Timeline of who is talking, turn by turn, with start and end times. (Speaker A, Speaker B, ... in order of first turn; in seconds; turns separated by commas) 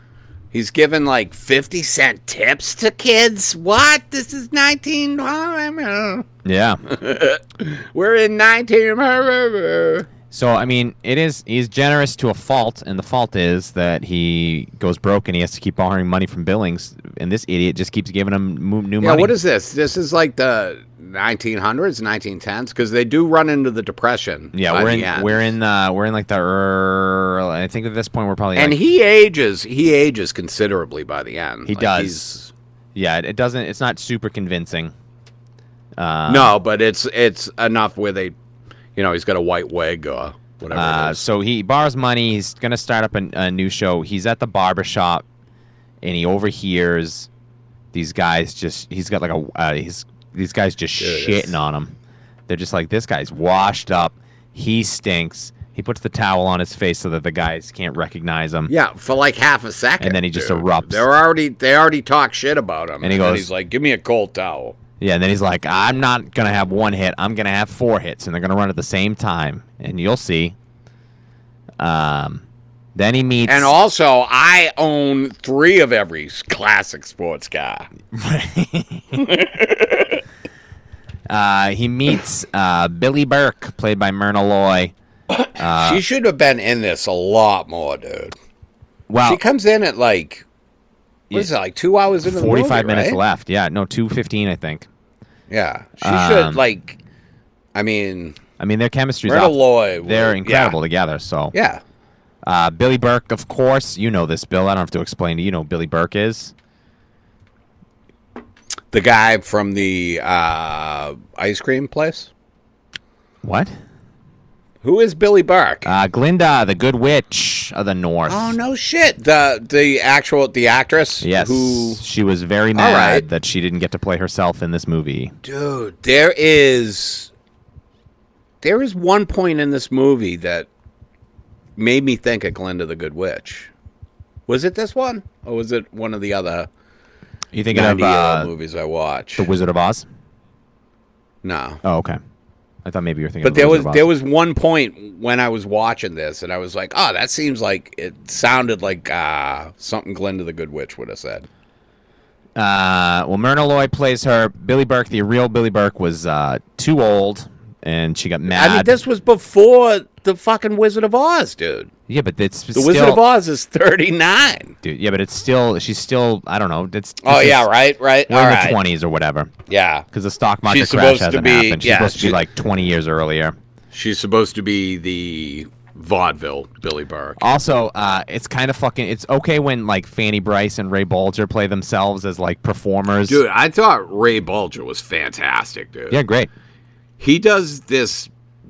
Speaker A: 0.5-6.3, Speaker B: 6.4-6.8, Speaker A: 6.9-10.1, Speaker B: 10.3-19.3, Speaker A: 19.0-25.5, Speaker B: 24.5-28.8, Speaker A: 28.6-32.5, Speaker B: 31.7-32.4, Speaker B: 33.0-34.9, Speaker B: 36.0-36.5, Speaker A: 36.3-38.4, Speaker A: 39.0-41.2, Speaker B: 40.7-45.2, Speaker B: 46.0-47.3, Speaker B: 47.9-52.0, Speaker A: 51.0-51.5, Speaker B: 52.5-58.7, Speaker A: 58.7-64.8, Speaker B: 60.0-61.0, Speaker B: 63.0-63.5, Speaker B: 65.0-70.6, Speaker B: 71.8-72.4, Speaker B: 73.0-73.7, Speaker A: 73.5-77.9, Speaker B: 78.1-79.3, Speaker A: 79.1-80.2, Speaker B: 81.3-84.9, Speaker A: 85.3-88.4, Speaker B: 85.6-86.0, Speaker B: 89.1-89.4, Speaker A: 89.2-90.5, Speaker A: 91.3-93.2, Speaker B: 92.2-94.9, Speaker A: 95.5-97.0, Speaker B: 96.0-96.6, Speaker A: 97.8-98.4, Speaker B: 98.6-101.5, Speaker A: 99.3-100.8, Speaker A: 101.5-101.8, Speaker B: 102.4-106.5, Speaker A: 108.9-112.3, Speaker B: 113.4-113.7, Speaker A: 114.8-115.9, Speaker B: 115.8-118.5, Speaker A: 118.3-122.0, Speaker B: 121.2-125.3, Speaker A: 122.8-123.3, Speaker A: 125.4-127.3, Speaker A: 128.6-130.7, Speaker A: 131.8-133.7, Speaker A: 134.5-136.7, Speaker B: 137.5-138.5, Speaker A: 137.7-139.5, Speaker B: 139.4-140.1, Speaker A: 141.4-141.8, Speaker B: 141.8-142.2, Speaker B: 142.8-144.1, Speaker A: 143.4-151.5, Speaker B: 152.6-158.9, Speaker A: 158.5-161.9, Speaker B: 162.1-163.2, Speaker A: 162.7-164.8, Speaker B: 164.8-167.7, Speaker A: 167.2-168.8, Speaker B: 168.3-169.5, Speaker A: 169.7-170.1, Speaker B: 170.1-173.6, Speaker A: 170.7-172.4, Speaker A: 173.9-177.4, Speaker B: 177.4-183.4, Speaker A: 183.2-186.2, Speaker B: 186.1-186.5, Speaker A: 187.2-188.3